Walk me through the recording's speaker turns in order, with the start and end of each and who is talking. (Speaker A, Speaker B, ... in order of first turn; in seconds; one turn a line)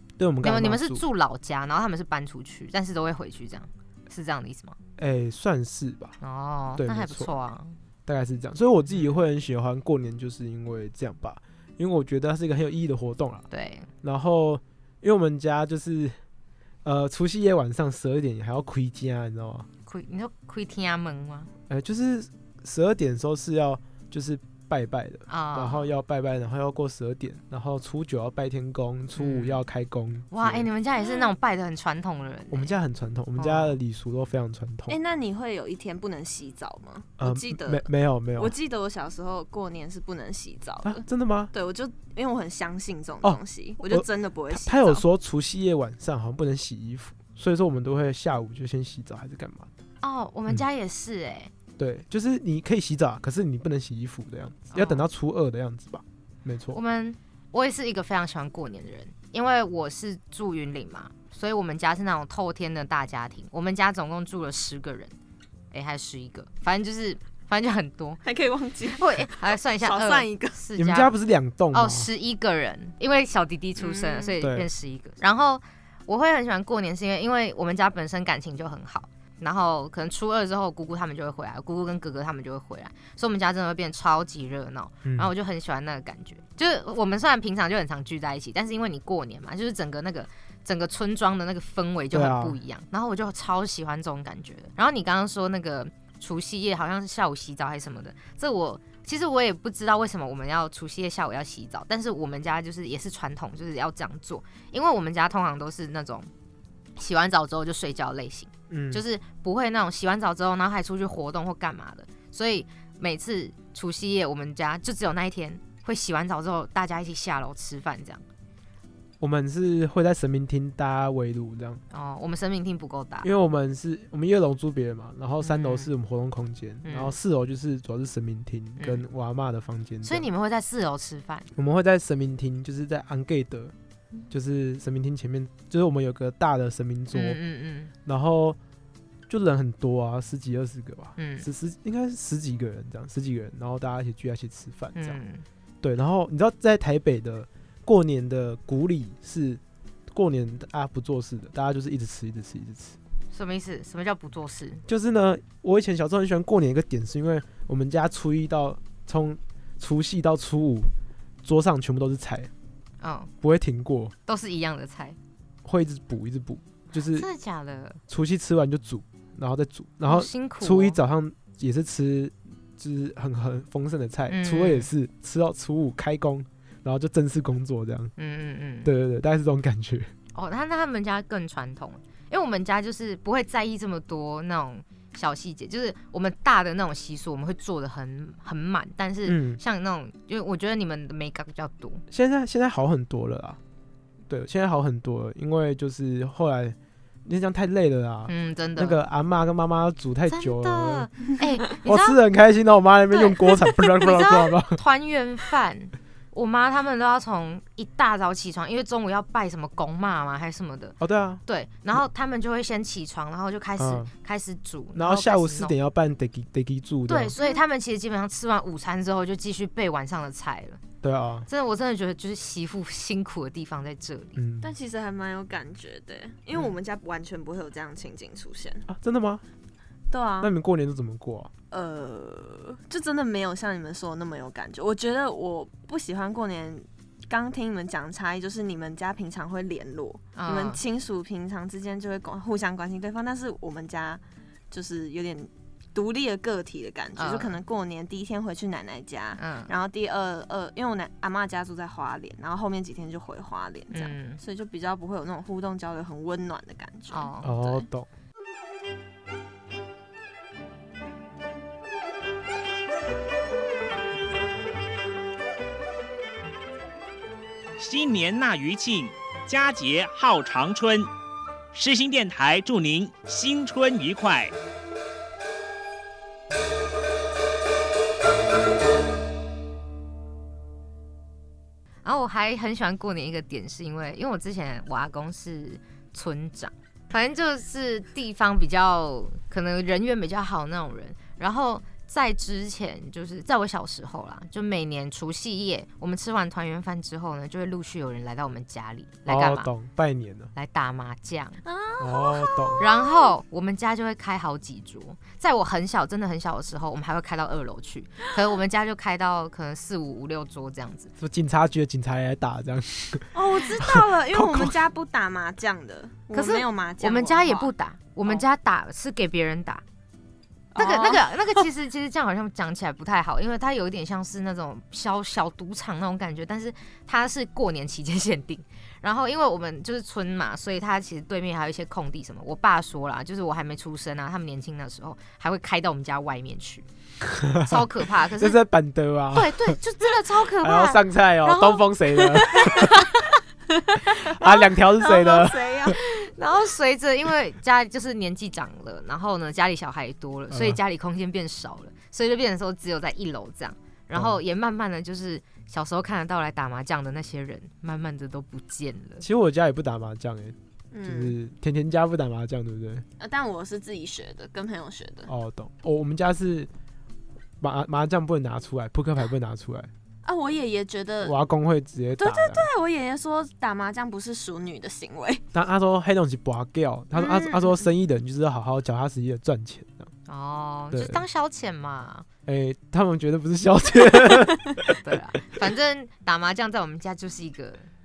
Speaker A: 0.2-1.0
Speaker B: 0.4-4.8
Speaker A: 5.0-6.1
Speaker B: 6.2-7.8
Speaker A: 6.8-7.3
Speaker A: 8.1-13.5
Speaker B: 8.9-9.2
Speaker B: 13.5-13.9
Speaker A: 14.0-16.2
Speaker A: 16.8-19.7
Speaker B: 19.9-21.5
Speaker A: 21.7-30.7
Speaker B: 25.3-25.9
Speaker B: 29.2-29.6
Speaker B: 30.3-32.7
Speaker C: 31.0-31.3
Speaker A: 32.5-35.0
Speaker B: 33.4-33.8
Speaker C: 34.9-45.0
Speaker A: 37.2-38.5
Speaker A: 40.8-41.5
Speaker A: 43.2-49.7
Speaker B: 50.0-51.5
Speaker A: 51.8-56.8
Speaker B: 54.7-55.0
Speaker B: 56.7-65.1
Speaker B: 65.7-68.2
Speaker C: 68.2-70.6
Speaker B: 69.0-71.1
Speaker A: 70.7-72.1
Speaker B: 71.7-106.3
Speaker C: 73.8-74.4
Speaker A: 74.4-74.7
Speaker A: 85.0-85.3
Speaker A: 92.1-92.6
Speaker B: 107.0-118.2
Speaker A: 108.7-109.0
Speaker A: 119.2-121.8
Speaker B: 121.9-123.3
Speaker A: 123.2-130.3
Speaker B: 125.4-125.9
Speaker B: 126.8-127.2
Speaker B: 128.8-129.0
Speaker B: 130.0-131.5
Speaker A: 131.6-133.7
Speaker A: 134.3-137.4
Speaker B: 137.1-137.9
Speaker A: 138.0-138.6
Speaker A: 139.3-145.2
Speaker B: 141.2-141.5
Speaker B: 144.9-145.4
Speaker A: 145.8-153.0
Speaker B: 153.3-154.8
Speaker A: 154.9-160.9
Speaker A: 161.4-162.5
Speaker B: 163.0-163.3
Speaker A: 163.4-164.1
Speaker B: 164.3-165.2
Speaker A: 165.6-167.3
Speaker B: 166.9-168.0
Speaker A: 168.1-178.1
Speaker B: 170.1-171.0
Speaker B: 174.3-174.9
Speaker B: 178.2-178.9
Speaker A: 178.8-180.1
Speaker B: 180.3-192.0
Speaker A: 189.2-189.6
Speaker A: 192.1-193.6
Speaker A: 194.3-201.1
Speaker B: 198.3-199.0
Speaker B: 200.3-202.2
Speaker A: 201.8-204.8
Speaker B: 203.1-215.7
Speaker A: 211.0-211.4
Speaker A: 213.8-214.1
Speaker A: 214.9-217.3
Speaker B: 217.1-220.8
Speaker A: 221.0-221.5
Speaker B: 221.5-224.4
Speaker A: 224.3-224.7
Speaker C: 224.6-228.8
Speaker A: 228.9-229.4
Speaker C: 230.1-230.5
Speaker A: 230.4-231.5
Speaker C: 231.7-257.3
Speaker B: 240.3-240.8
Speaker B: 247.2-247.6
Speaker B: 249.4-249.7
Speaker B: 253.9-254.4
Speaker B: 257.1-257.9
Speaker A: 257.4-258.1
Speaker D: 267.8-271.1
Speaker D: 271.7-274.5
Speaker B: 282.0-299.7
Speaker A: 299.2-300.5
Speaker B: 300.6-301.6
Speaker C: 301.6-303.3
Speaker A: 302.0-302.8
Speaker B: 302.8-311.1
Speaker A: 311.2-314.7
Speaker C: 313.3-317.7
Speaker B: 316.3-319.8
Speaker C: 320.7-321.6
Speaker B: 320.8-336.9
Speaker A: 337.3-337.9
Speaker B: 337.6-338.6
Speaker A: 338.4-339.8
Speaker B: 339.3-343.0
Speaker A: 340.6-343.0
Speaker C: 343.8-345.9
Speaker A: 344.2-345.9
Speaker B: 345.9-359.2
Speaker A: 350.5-350.8
Speaker A: 354.1-354.4
Speaker A: 359.2-363.0
Speaker C: 360.9-361.4
Speaker C: 363.2-365.3
Speaker A: 365.3-366.7
Speaker A: 367.6-369.9
Speaker C: 370.2-371.3
Speaker A: 371.2-372.7
Speaker C: 372.2-375.4
Speaker A: 375.5-380.1
Speaker C: 377.1-377.9
Speaker B: 380.3-382.2
Speaker A: 380.9-381.2
Speaker A: 382.4-385.1
Speaker B: 385.0-387.9